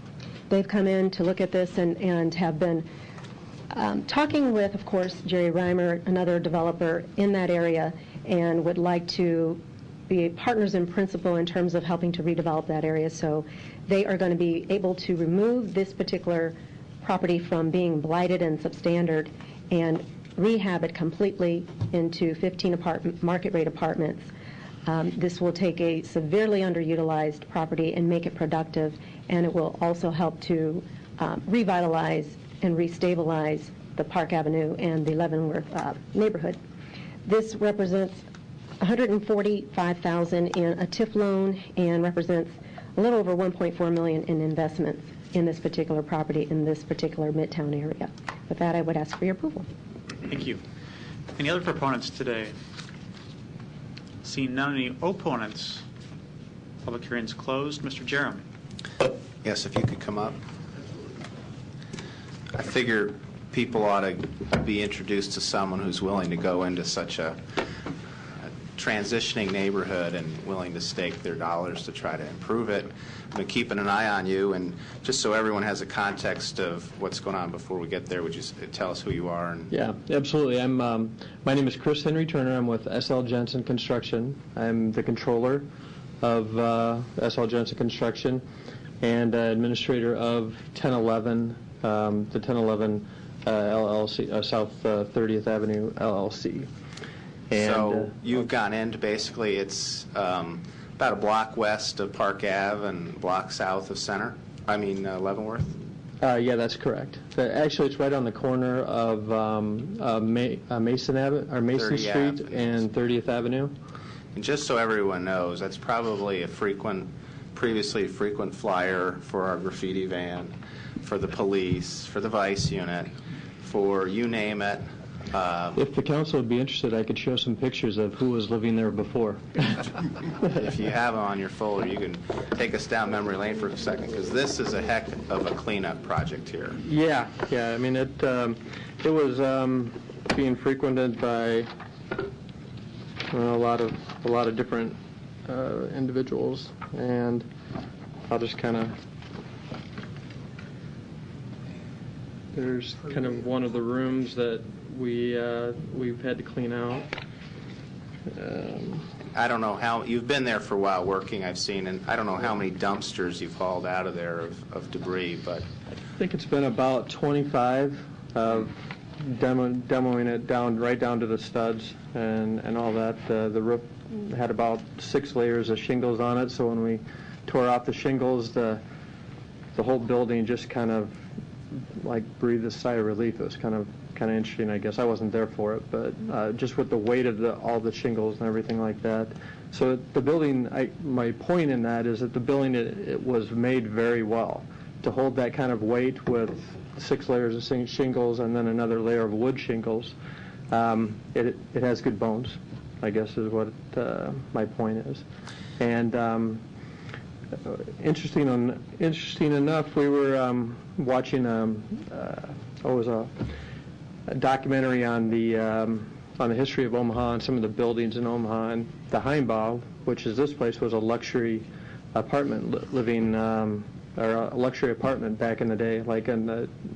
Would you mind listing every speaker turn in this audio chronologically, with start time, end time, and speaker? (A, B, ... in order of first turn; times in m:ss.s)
0:00.5-0:02.9 A
0:03.7-0:24.3 A
0:24.9-0:36.6 A
0:37.2-0:38.2 A
0:38.8-0:49.7 A
0:50.3-0:50.6 B
0:51.4-0:52.6 B
0:54.2-0:55.8 B
0:56.8-0:58.4 B
0:59.4-1:00.4 C
1:02.5-1:07.4 C
1:08.4-1:19.7 C
1:19.7-1:25.7 D
1:26.2-1:28.4 D
1:29.0-1:36.7 D
1:37.5-1:38.1 D
1:37.5-1:45.8 C
1:46.2-1:53.8 D
1:51.8-1:52.8 C
1:54.3-2:05.8 C
2:05.8-2:09.9 D
2:10.4-2:16.8 C
2:16.8-2:21.7 D
2:23.3-2:27.5 D
2:28.3-2:29.0 D
2:32.5-2:37.1 D
2:38.3-2:39.1 D
2:39.3-2:45.6 C
2:46.2-2:58.8 D
2:59.8-3:01.2 D
3:02.0-3:20.2 D
3:20.7-3:25.2 D
3:25.8-3:26.6 D
3:27.6-3:33.5 D
3:34.3-3:46.7 D